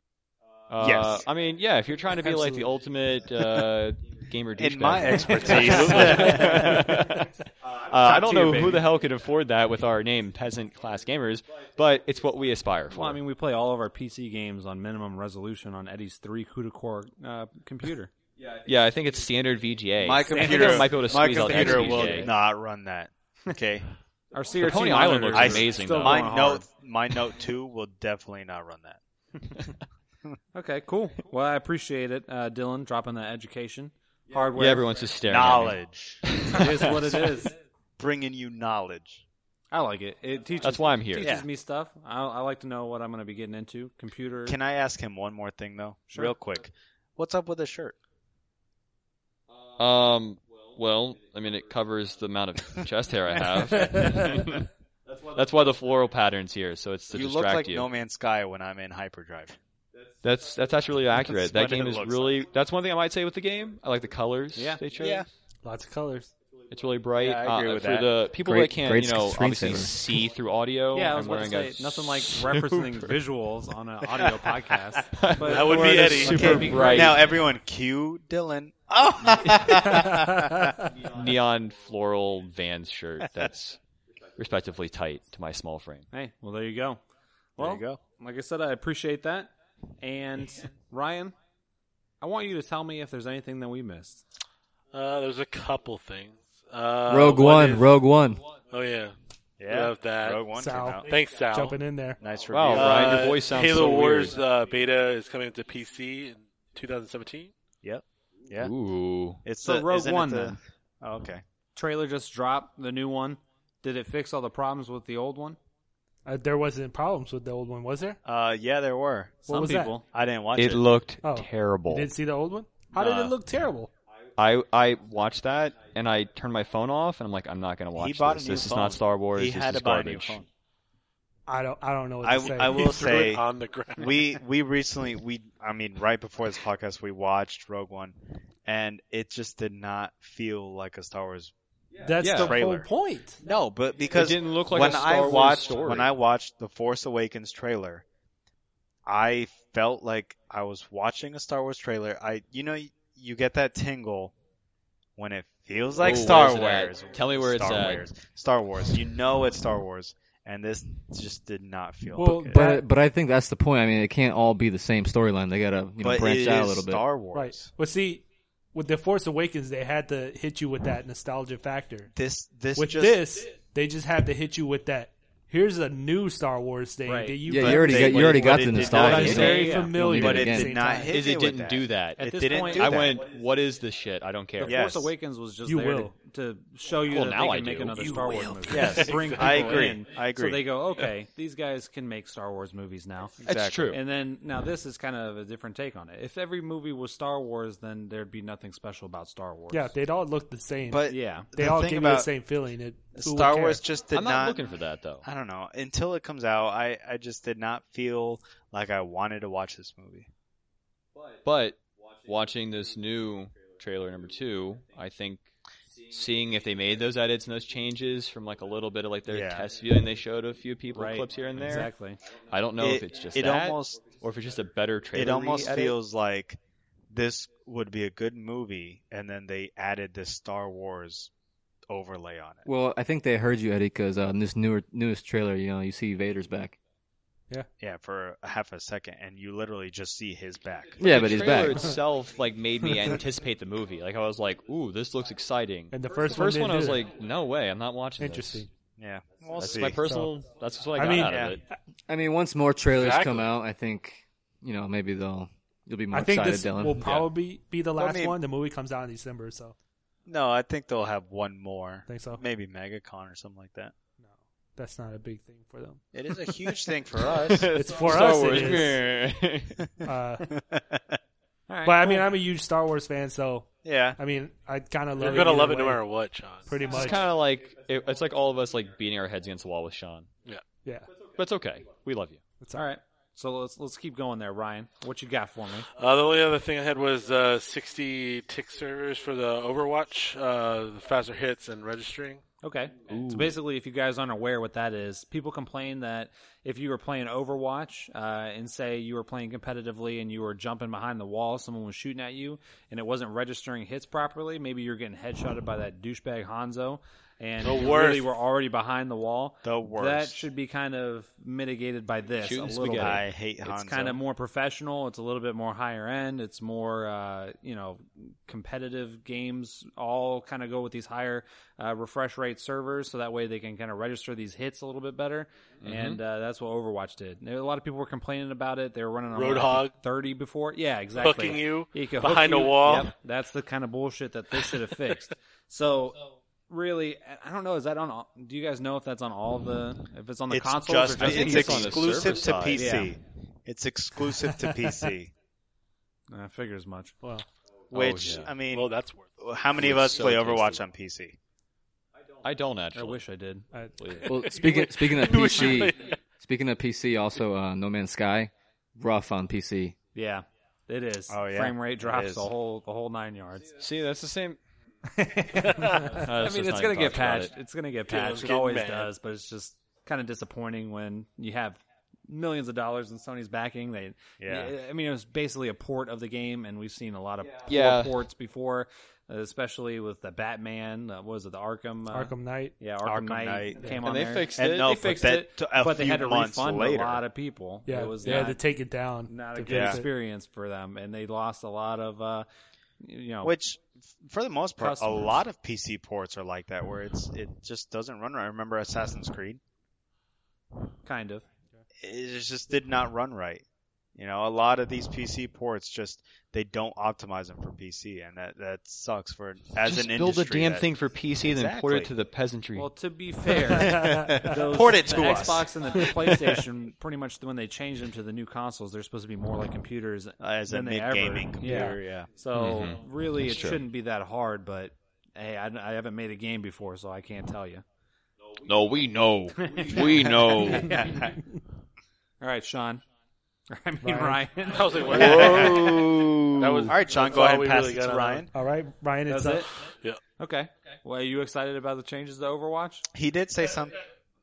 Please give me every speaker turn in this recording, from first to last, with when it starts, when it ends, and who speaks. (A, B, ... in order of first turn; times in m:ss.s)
0:00.7-0:13.2 A
0:00.8-0:01.2 B
0:02.2-0:02.7 C
0:04.6-0:07.1 B
0:05.6-0:06.3 D
0:06.1-0:06.6 E
0:07.9-0:08.8 E
0:12.9-0:18.1 E
0:18.5-0:22.3 A
0:20.0-0:23.9 B
0:20.3-0:22.3 E
0:24.3-0:26.6 E
0:24.6-0:26.3 A
0:25.3-0:29.0 B
0:30.5-0:34.9 E
0:34.5-0:37.2 A
0:35.3-0:37.1 B
0:36.5-0:37.5 E
0:38.0-0:39.2 B
0:39.7-0:44.6 E
0:40.6-0:41.3 A
0:41.2-0:41.5 B
0:44.4-0:48.0 B
0:49.8-0:54.7 A
0:55.3-0:57.9 A
0:57.1-0:59.6 B
1:00.2-1:05.3 A
1:01.3-1:02.3 B
1:04.5-1:04.8 E
1:05.0-1:05.3 B
1:05.6-1:06.3 C
1:06.7-1:13.2 A
1:07.2-1:08.2 B
1:08.4-1:09.9 F
1:10.9-1:17.2 E
1:15.1-1:17.4 A
1:15.4-1:16.9 D
1:16.2-1:20.8 B
1:20.1-1:20.4 C
1:21.0-1:23.8 A
1:24.4-1:26.1 A
1:26.1-1:27.0 E
1:27.6-1:28.0 B
1:27.6-1:31.3 E
1:32.2-1:34.2 E
1:34.9-1:37.9 D
1:37.0-1:38.4 F
1:38.6-1:40.4 D
1:39.6-1:41.1 B
1:40.6-1:42.2 C
1:41.0-1:41.8 D
1:42.2-1:43.3 B
1:42.5-1:44.4 A
1:42.7-1:47.5 D
1:47.8-1:48.7 B
1:48.6-1:49.4 A
1:49.4-1:51.4 B
1:49.6-1:50.6 E
1:51.7-1:55.6 E
1:56.2-1:58.2 C
1:58.2-1:59.5 B
1:59.5-2:00.0 C
1:59.5-2:00.0 E
2:00.1-2:00.8 B
2:00.5-2:02.1 A
2:01.2-2:03.9 C
2:03.0-2:03.3 A
2:04.4-2:10.4 A
2:08.0-2:10.5 B
2:11.5-2:13.1 C
2:12.2-2:13.4 B
2:12.6-2:14.3 D
2:13.9-2:21.5 B
2:22.0-2:23.4 C
2:22.2-2:22.6 A
2:22.2-2:22.9 B
2:23.4-2:28.0 B
2:24.1-2:26.1 A
2:29.0-2:34.3 B
2:35.2-2:42.6 B
2:36.0-2:38.0 A
2:42.1-2:42.8 C
2:42.2-2:47.0 F
2:46.0-2:47.7 B
2:47.3-2:52.1 C
2:52.1-2:53.2 B
2:52.8-2:58.5 C
2:57.0-2:57.5 E
2:57.5-3:00.7 F
2:57.5-3:03.2 B
2:58.8-2:59.8 A
2:59.1-3:00.0 E
2:59.1-3:01.2 C
3:01.1-3:04.9 A
3:02.2-3:03.1 E
3:04.6-3:19.9 E
3:04.6-3:05.1 B
3:05.6-3:06.1 C
3:07.1-3:08.6 A
3:08.6-3:10.7 B
3:08.8-3:09.8 D
3:13.4-3:13.9 B
3:13.4-3:14.0 A
3:19.7-3:23.8 C
3:20.9-3:22.3 B
3:21.1-3:21.5 E
3:23.1-3:24.6 B
3:24.1-3:25.2 A
3:25.2-3:30.3 B
3:31.4-3:35.5 A
3:36.1-3:41.9 A
3:39.3-3:39.7 B
3:41.0-3:42.2 E
3:42.5-3:45.9 A
3:42.8-3:44.0 B
3:45.1-3:46.6 B
3:47.1-3:51.3 B
3:51.9-3:52.6 B
3:52.6-3:56.7 F
3:57.8-4:01.6 B
4:01.0-4:08.7 A
4:01.0-4:01.9 F
4:05.9-4:07.0 C
4:08.2-4:08.7 C
4:09.0-4:10.0 B
4:09.5-4:11.6 A
4:10.0-4:10.3 C
4:11.0-4:11.5 C
4:11.2-4:11.6 B
4:12.1-4:17.1 F
4:12.9-4:13.5 D
4:16.1-4:19.7 C
4:17.0-4:17.3 A
4:18.0-4:18.4 B
4:20.2-4:23.9 B
4:22.1-4:22.4 C
4:24.2-4:26.0 C
4:26.1-4:27.9 B
4:27.3-4:29.8 A
4:27.7-4:29.0 C
4:30.0-4:30.5 C
4:30.5-4:31.2 B
4:31.7-4:32.3 E
4:31.8-4:36.0 C
4:33.8-4:34.2 B
4:35.2-4:36.9 D
4:36.6-4:37.2 C
4:36.9-4:40.3 A
4:41.3-4:42.4 A
4:42.6-4:42.9 C
4:42.7-4:45.9 E
4:46.0-4:52.4 D
4:52.6-5:43.1 E
4:53.1-4:53.6 A
5:07.6-5:08.3 D
5:09.6-5:10.4 B
5:12.4-5:13.2 A
5:12.9-5:14.2 B
5:25.8-5:26.2 A
5:29.3-5:29.9 D
5:31.2-5:33.1 D
5:40.5-5:45.3 B
5:41.2-5:43.0 A
5:44.5-5:44.9 C
5:46.3-5:47.2 E
5:47.9-5:48.5 A
5:47.9-5:51.4 B
5:48.6-5:49.4 D
5:49.7-5:50.8 A
5:52.4-5:53.2 A
5:52.9-5:53.7 E
5:53.7-5:54.3 C
5:54.0-5:54.4 A
5:54.2-5:59.9 F
5:54.5-5:56.2 D
6:00.1-6:03.7 E
6:01.3-6:02.5 B
6:03.8-6:04.6 A
6:05.0-6:28.6 E
6:05.6-6:06.2 D
6:06.1-6:07.5 A
6:08.1-6:09.1 D
6:14.4-6:14.7 B
6:17.7-6:18.3 A
6:22.1-6:22.8 C
6:23.0-6:23.9 B
6:23.8-6:24.0 C
6:24.0-6:25.1 A
6:24.5-6:27.2 B
6:27.8-6:30.1 C
6:29.3-6:32.5 E
6:29.7-6:30.0 B
6:33.0-6:33.5 E
6:33.4-6:39.6 B
6:34.8-6:35.3 E
6:41.0-6:41.4 E
6:42.0-6:50.9 B
6:49.8-6:52.9 A
6:51.4-6:52.1 B
6:52.8-7:07.8 E
6:53.7-6:55.7 B
6:53.7-6:54.6 C
7:00.4-7:02.3 B
7:01.6-7:02.0 C
7:02.5-7:03.8 A
7:08.6-7:11.1 A
7:09.6-7:11.4 E
7:12.4-7:13.0 E
7:13.7-7:15.8 E
7:14.0-7:14.4 C
7:14.7-7:18.5 D
7:15.1-7:16.9 A
7:16.9-7:18.5 B
7:18.5-7:19.7 C
7:19.3-7:19.7 E
7:20.4-7:23.1 E
7:23.1-7:24.0 B